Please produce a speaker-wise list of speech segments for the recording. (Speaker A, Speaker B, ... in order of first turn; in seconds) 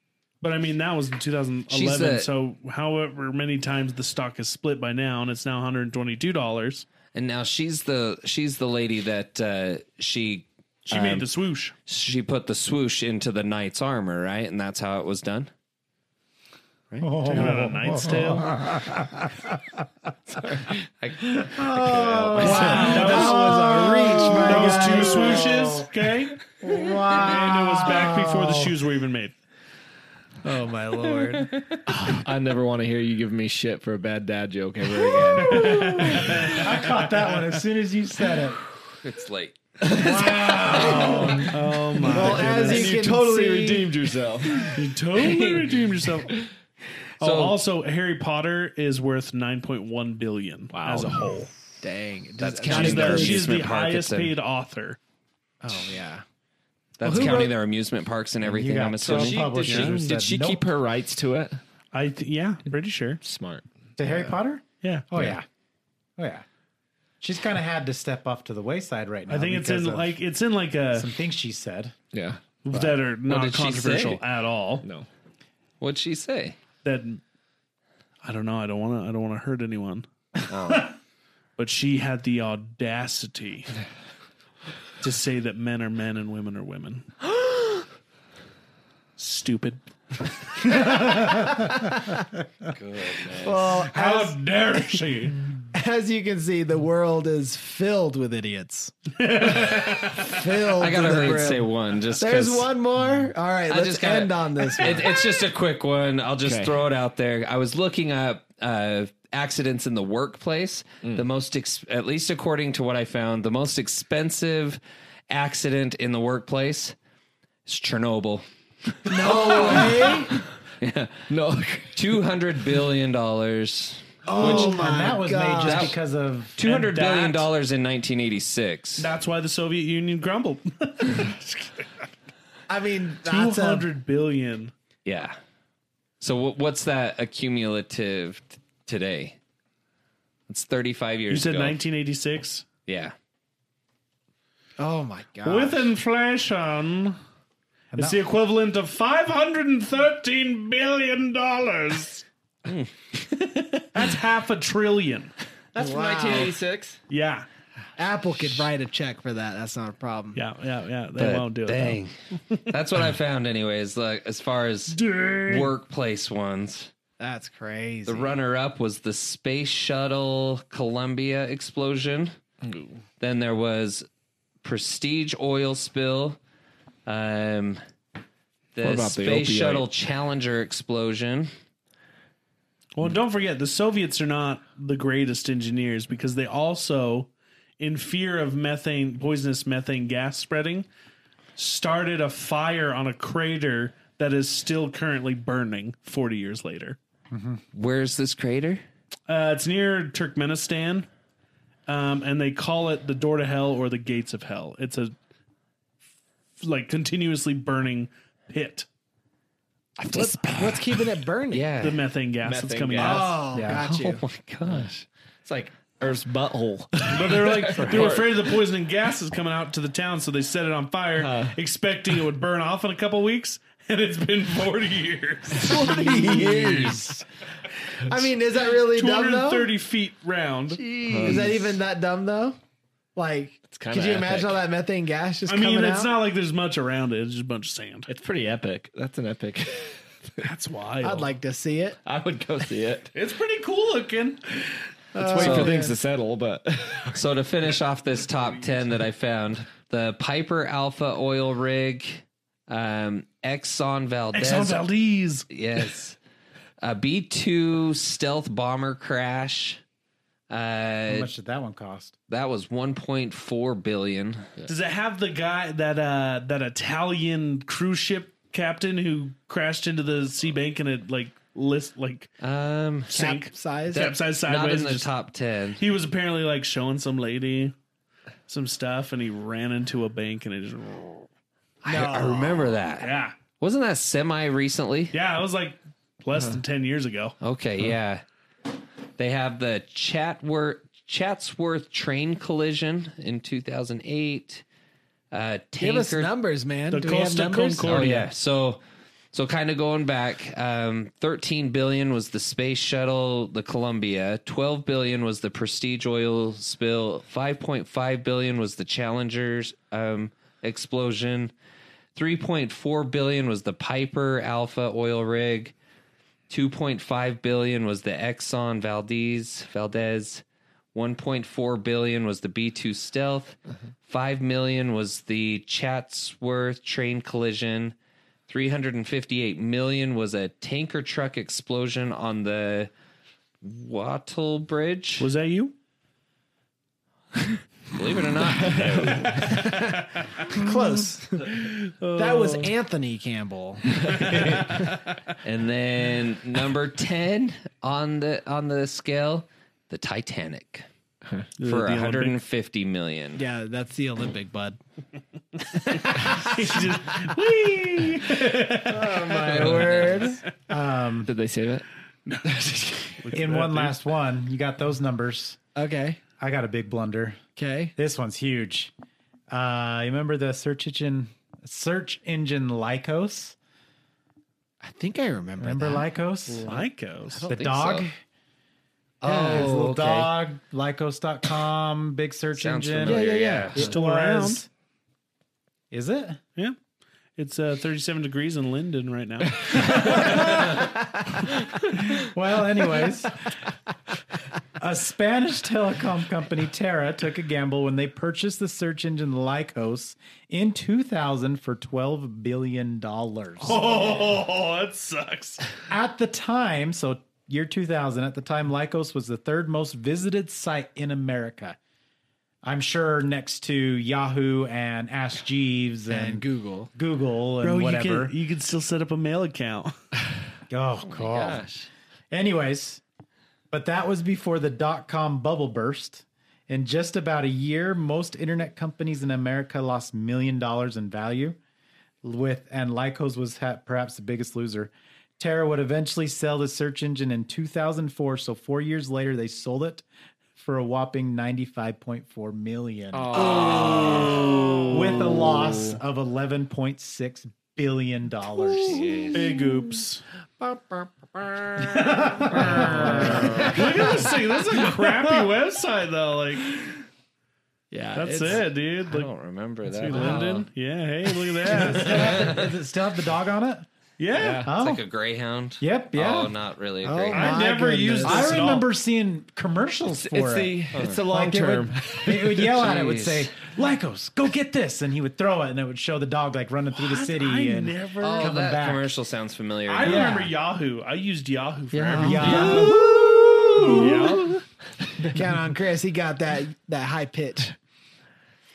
Speaker A: 0.4-6.9, 10.8-11.7, 17.2-18.5, 22.4-26.5, 27.1-29.4, 36.1-37.4, 41.4-42.9, 44.7-46.4, 47.2-51.5, 52.7-55.0, 59.7-60.0, 61.9-63.2, 64.8-65.1, 69.3-71.1, 72.6-74.8, 76.8-77.2, 78.2-80.0, 81.6-83.7, 85.0-87.1, 89.2-90.9, 93.7-95.5, 99.2-100.4, 126.6-127.5, 129.0-132.1, 133.2-134.7, 141.3-142.7, 145.4-147.2, 147.9-152.2, 153.9-155.3, 157.1-157.4, 160.3-162.0, 164.9-165.7, 182.9-190.9, 191.6-197.0, 199.3-201.1, 201.9-205.1, 206.6-208.9, 211.8-213.4, 217.1-226.9, 228.9-231.4, 235.5-238.1, 240.4-241.3, 243.1-244.4, 254.3-255.4, 264.6-272.3, 273.1-275.1, 275.8-277.7, 278.5-281.3, 282.9-283.4, 285.1-287.3, 296.9-298.3, 335.2-335.7, 339.3-340.6, 341.4-342.7, 344.1-344.9, 351.6-352.4, 355.9-360.2, 362.3-364.0, 376.6-377.4, 383.8-384.6, 387.4-390.6, 403.6-405.7, 417.6-419.9, 449.3-450.2, 451.9-457.0, 458.1-459.3, 459.9-462.5, 464.2-464.7, 467.3-468.9, 476.9-478.6, 479.9-484.6
Speaker B: 1.7-2.3, 7.1-11.3, 11.8-15.5, 16.9-17.4, 20.3-23.1, 39.0-39.6, 40.7-41.3, 47.2-47.6, 52.4-54.3, 57.0-60.0, 73.3-74.2, 75.8-76.6, 80.5-80.9, 92.7-93.8, 100.7-102.7, 103.7-117.0, 117.7-118.4, 119.0-120.2, 120.8-121.3, 121.9-124.9, 125.6-126.0, 126.6-129.1, 135.0-135.4, 136.2-139.4, 140.5-141.8, 142.8-143.1, 152.7-153.8, 161.1-162.1, 162.7-166.9, 168.1-172.3, 173.2-174.1, 174.6-176.4, 177.1-177.8, 178.7-181.5, 197.7-198.8, 211.5-212.0, 213.7-215.0, 245.3-245.8, 247.1-254.8, 255.5-256.2, 256.8-259.8, 260.5-261.3, 262.3-264.5, 272.4-273.1, 273.9-275.8, 281.8-285.1, 287.4-288.2, 289.2-294.6, 295.3-296.3, 297.9-298.8, 299.3-311.5, 312.1-315.7, 316.5-320.4, 320.9-327.9, 328.5-332.9, 333.6-335.3, 337.9-339.6, 345.4-350.9, 351.6-353.4, 359.4-360.4, 377.4-378.1, 379.2-380.3, 382.6-383.8, 421.0-421.9, 448.8-449.4, 453.2-453.8, 459.1-460.7, 462.0-462.7, 464.8-467.6, 470.9-471.2, 472.6-473.5, 478.2-480.3
Speaker C: 17.0-19.8, 21.4-25.9, 26.6-28.7, 35.4-38.6, 39.9-41.8, 58.4-60.6, 64.0-65.5, 66.2-66.4, 67.2-70.2, 70.9-71.9, 90.7-91.7, 124.3-126.6, 147.9-148.2, 197.3-197.6, 213.5-213.8, 226.2-227.0, 261.1-262.1, 358.6-360.0, 360.7-361.3, 363.3-365.6, 366.4-367.4, 367.9-368.9, 369.5-373.6, 375.6-376.8, 377.4-378.2, 379.3-384.7, 385.9-386.4, 389.8-390.9, 392.1-393.4, 394.8-404.2, 405.9-411.8, 412.6-418.3, 420.7-421.7, 422.3-423.0, 423.7-431.6, 432.2-440.0, 440.6-443.5, 444.9-449.0, 452.4-453.6, 461.7-463.9, 464.6-465.0, 465.8-466.5, 468.2-479.1, 480.0-480.5, 482.1-483.0
Speaker D: 22.3-25.7, 30.4-32.1, 40.6-41.4, 42.0-44.0, 51.8-53.5, 55.6-56.2, 57.0-57.5, 93.3-94.4, 95.7-105.2, 119.0-120.4, 124.2-126.0, 132.7-133.9, 144.8-145.9, 155.7-156.6, 158.0-160.4, 167.2-168.4, 210.0-211.7, 213.0-214.2, 225.5-227.1, 228.0-229.7, 230.8-232.6, 233.2-236.2, 241.0-242.0, 245.1-245.9, 273.1-274.1, 281.8-282.7, 295.8-298.1, 340.4-341.6, 342.1-344.6, 353.4-354.8, 355.7-356.9, 358.8-360.4, 365.8-366.2, 367.6-367.9, 374.8-376.1, 379.2-379.8, 383.0-384.0, 416.1-416.9, 450.6-454.8, 457.9-458.6, 467.0-468.7, 481.9-484.4, 485.3-487.8
Speaker E: 32.0-36.5, 39.8-41.4, 42.1-44.8, 50.7-51.3, 59.0-61.6, 63.2-63.6, 72.1-72.5, 74.8-75.1, 106.4-106.8, 121.3-122.0, 155.8-157.0, 172.6-173.0, 178.8-179.9, 210.1-210.6, 212.4-213.3, 215.4-218.5, 221.2-221.6, 231.1-231.6, 233.7-234.6, 238.1-240.0, 242.0-243.1, 245.1-247.2, 338.8-339.1, 361.2-361.8, 443.1-445.6, 464.3-464.7, 470.2-472.7